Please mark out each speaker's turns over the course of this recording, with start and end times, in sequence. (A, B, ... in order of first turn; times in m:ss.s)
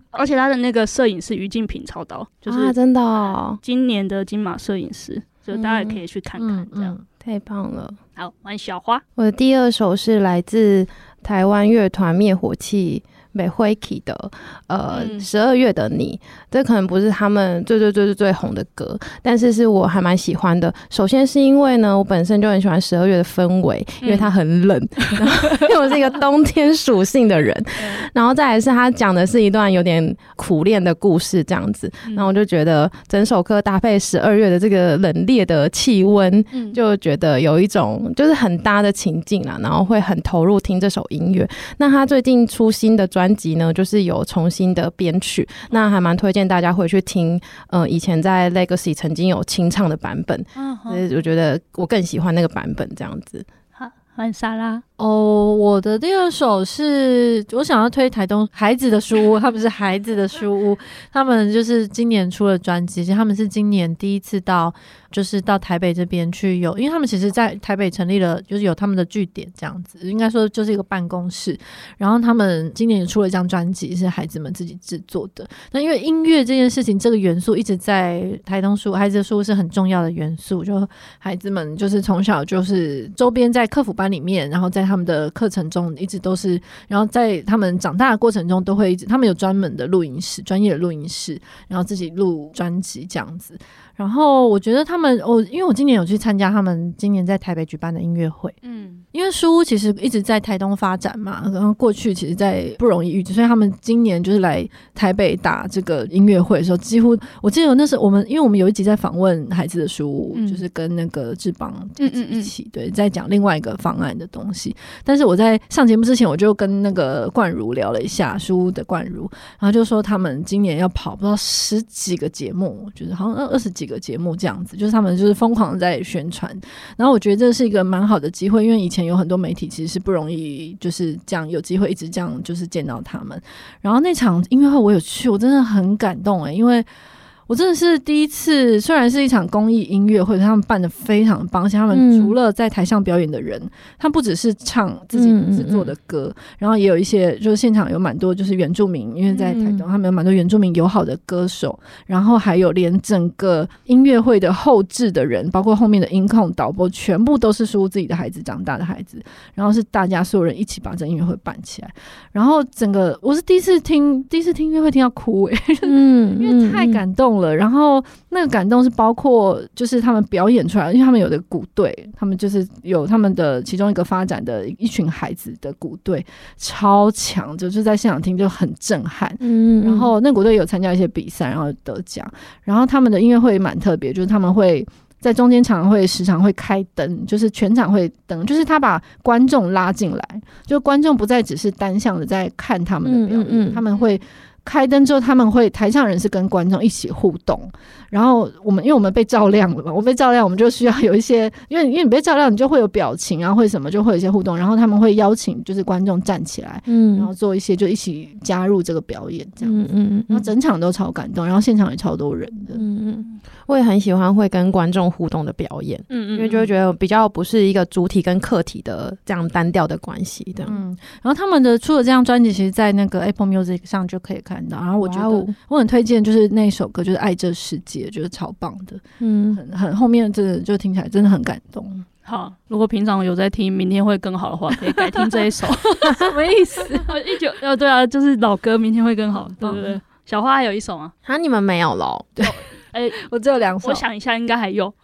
0:00.1-0:02.8 A
0:02.5-0:03.6 B
0:03.6-0:06.9 A
0:05.5-0:06.0 B
0:06.4-0:07.0 C
0:07.2-0:08.0 B
0:08.2-0:09.0 A
0:09.2-0:53.5 B
0:14.9-0:15.3 A
0:24.0-0:24.3 A
0:25.1-0:25.6 A
0:27.8-0:28.0 A
0:36.5-0:36.8 A
0:50.6-0:51.0 A
0:53.8-0:54.8 A
0:55.0-1:38.6 C
1:38.6-1:39.0 A
1:39.1-2:16.9 C
1:50.3-1:50.6 A
1:52.0-1:52.5 A
2:17.5-3:32.8 C
2:21.9-2:22.4 B
2:25.1-2:25.9 B
2:29.3-2:29.9 B
2:45.8-2:47.0 B
2:59.4-3:00.1 B
3:13.0-3:13.8 B
3:26.9-3:27.3 B
3:29.6-3:30.5 B
3:32.7-3:40.8 B
3:36.2-3:36.7 C
3:40.6-3:49.0 C
3:45.0-3:45.5 B
3:49.2-3:49.6 B
3:49.5-3:52.1 C
3:52.2-3:56.2 A
3:55.0-3:57.2 C
3:56.0-3:56.3 B
3:57.0-4:01.1 A
3:59.6-3:59.9 C
4:01.2-4:02.5 B
4:02.9-4:03.3 A
4:03.2-4:04.0 C
4:03.8-4:05.0 A